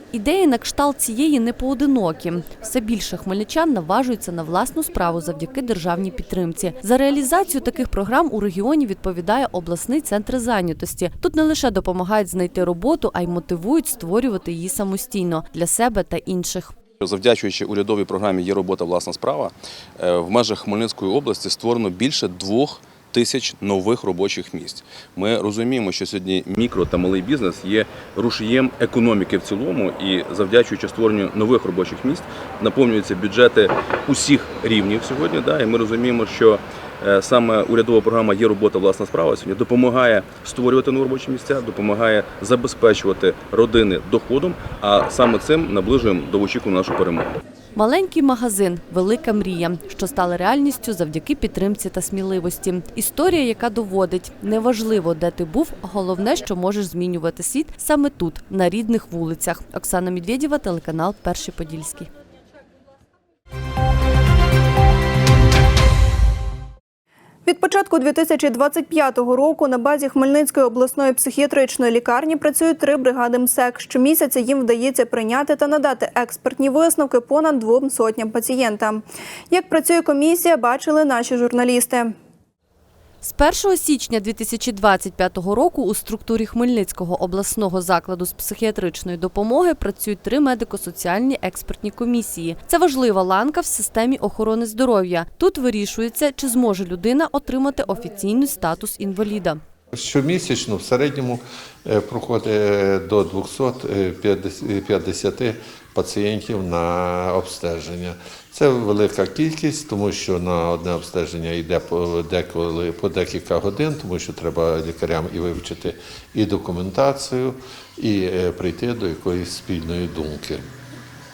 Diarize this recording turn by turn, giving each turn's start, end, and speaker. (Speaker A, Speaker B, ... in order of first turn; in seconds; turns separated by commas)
Speaker A: 0.1-16.8, Speaker B: 17.0-47.3, Speaker A: 47.7-62.1, Speaker C: 67.4-82.1, Speaker A: 83.2-99.6, Speaker D: 99.9-120.7